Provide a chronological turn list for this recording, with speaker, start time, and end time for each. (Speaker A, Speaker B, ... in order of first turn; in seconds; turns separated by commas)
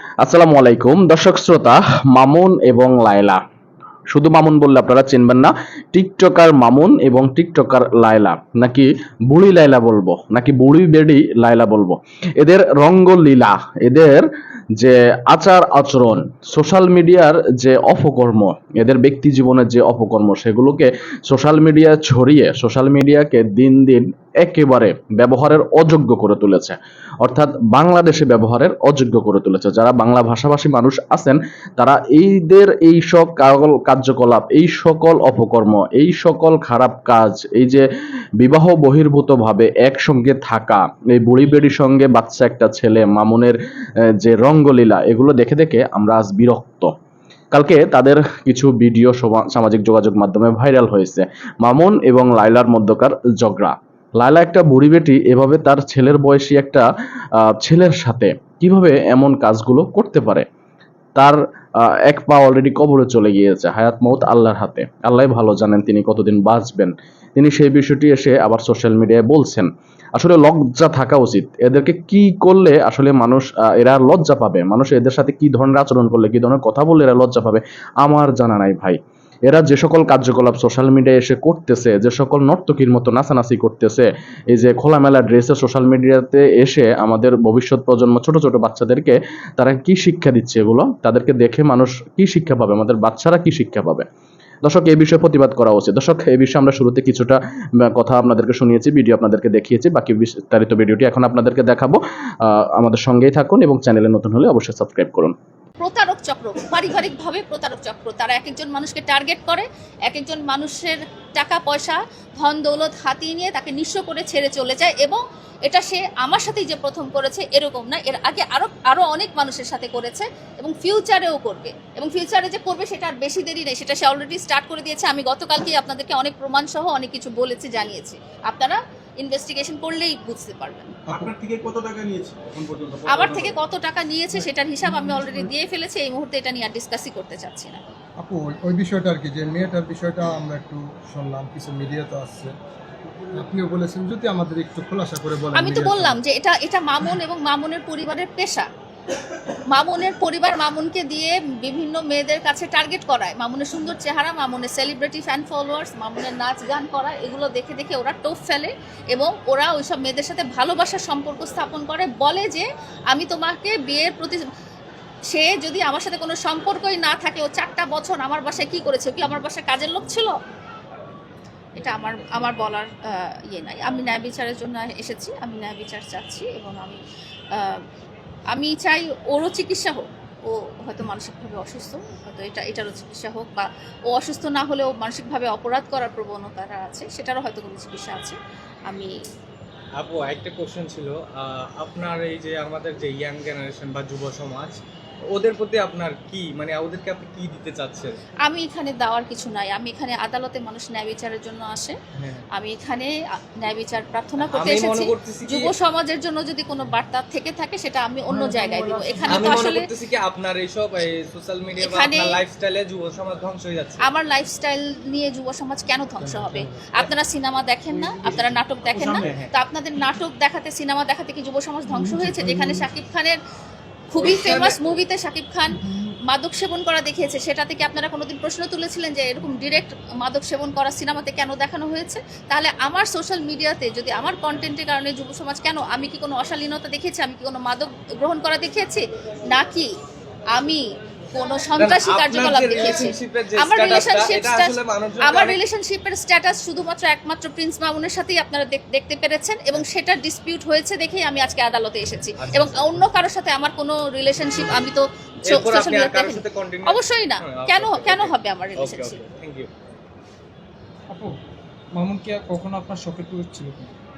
Speaker A: 0.2-3.4, Speaker A: 4.1-37.9, Speaker A: 38.4-43.6, Speaker A: 44.2-46.9, Speaker A: 47.5-56.9, Speaker A: 57.4-60.5, Speaker A: 61.2-94.1, Speaker A: 94.6-105.3, Speaker B: 105.8-130.9, Speaker C: 131.1-131.3, Speaker D: 131.1-133.6, Speaker B: 133.1-137.8, Speaker C: 134.8-135.5, Speaker C: 138.2-142.5, Speaker C: 143.3-146.2, Speaker B: 145.5-148.7, Speaker B: 149.7-164.4, Speaker B: 165.3-170.4, Speaker B: 171.8-177.0, Speaker B: 177.5-177.8, Speaker B: 178.5-188.4, Speaker B: 188.9-189.2, Speaker E: 190.0-194.8, Speaker E: 195.3-198.2, Speaker B: 198.4-202.0, Speaker E: 202.2-202.4, Speaker B: 202.5-209.9, Speaker E: 204.5-205.7, Speaker C: 208.3-209.7, Speaker E: 209.3-214.0, Speaker B: 211.8-212.4, Speaker B: 214.0-223.4, Speaker C: 216.2-216.9, Speaker E: 218.2-219.5, Speaker C: 221.9-222.9, Speaker B: 224.1-239.9, Speaker E: 224.2-224.8, Speaker B: 240.5-259.2, Speaker E: 241.8-245.6, Speaker E: 252.4-253.0, Speaker E: 255.5-259.7, Speaker F: 262.0-263.9